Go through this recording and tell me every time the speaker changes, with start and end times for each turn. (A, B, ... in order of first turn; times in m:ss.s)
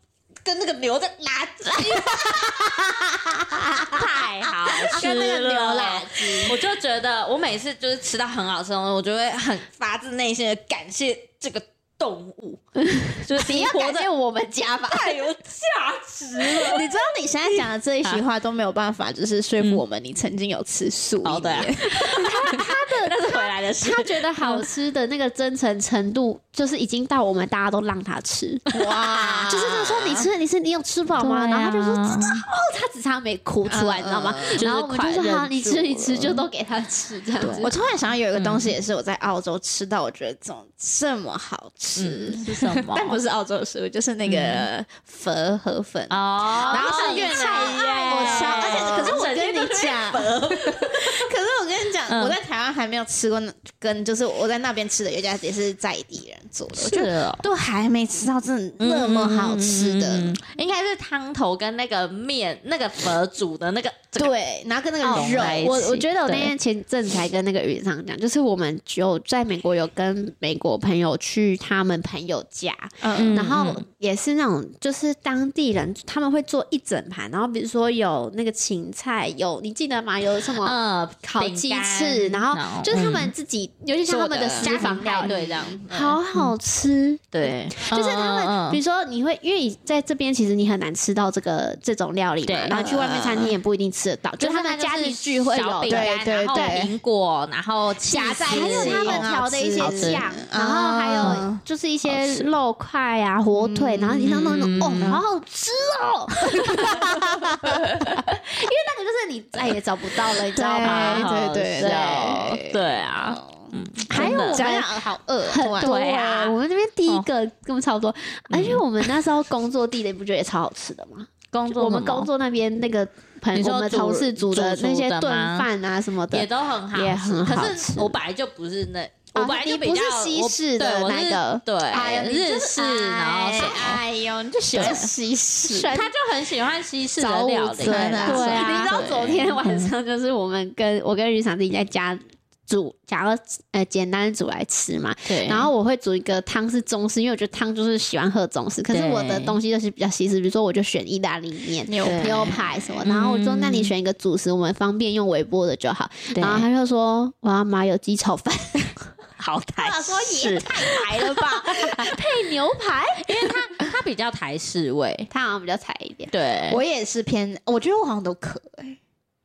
0:00.4-0:04.1 A
0:01.8-0:02.1 B
0:03.9-0:14.1 B
0:04.7-0:06.5 A
0:04.7-0:05.3 C
0:06.2-0:06.5 C
0:12.9-0:15.3 C
0:14.9-0:16.9 B
0:16.5-0:22.6 A
0:21.2-0:24.6 B
0:22.0-0:37.8 C
0:28.7-0:30.3 A
0:31.2-0:32.4 B
0:33.7-0:34.7 A
0:34.6-0:36.4 B
0:37.4-0:37.8 B
0:37.4-1:00.4 A
0:38.3-0:38.7 B
0:42.0-0:43.2 B
0:44.3-0:44.7 B
0:46.1-0:51.3 B
0:46.5-0:49.2 C
0:52.1-0:52.4 B
0:56.7-0:57.5 B
0:58.8-1:04.3 B
1:04.2-1:05.9 A
1:05.0-1:06.5 B
1:05.0-1:25.3 C
1:13.0-1:13.4 A
1:13.1-1:13.8 B
1:20.6-1:23.3 B
1:24.1-1:25.8 A
1:24.6-1:26.5 B
1:25.9-1:36.9 C
1:27.3-1:28.8 B
1:32.4-1:33.4 B
1:32.8-1:33.5 A
1:34.4-1:40.2 B
1:35.9-1:36.9 A
1:38.1-1:52.6 C
1:38.3-1:41.6 A
1:41.2-1:41.4 B
1:42.1-1:42.5 B
1:43.6-1:44.3 A
1:44.2-1:45.2 B
1:46.5-1:48.2 A
1:46.5-1:47.1 B
1:50.5-1:55.9 A
1:50.8-1:54.7 B
1:54.1-2:08.2 C
1:55.8-1:56.6 B
1:58.5-1:58.8 B
2:01.5-2:02.3 B
2:03.5-2:05.7 B
2:06.3-2:14.0 B
2:09.4-2:13.9 C
2:12.0-2:16.1 A
2:14.7-2:15.1 B
2:14.8-2:15.1 C
2:15.6-2:19.9 B
2:17.2-2:39.0 C
2:17.2-2:19.4 A
2:25.3-2:25.7 B
2:28.9-2:29.6 B
2:31.9-2:32.9 A
2:32.0-2:33.9 B
2:36.3-2:36.6 B
2:39.4-2:42.2 B
2:39.8-2:43.7 C
2:43.2-2:45.3 B
2:45.3-2:46.3 C
2:46.3-2:46.8 B
2:46.7-2:49.0 A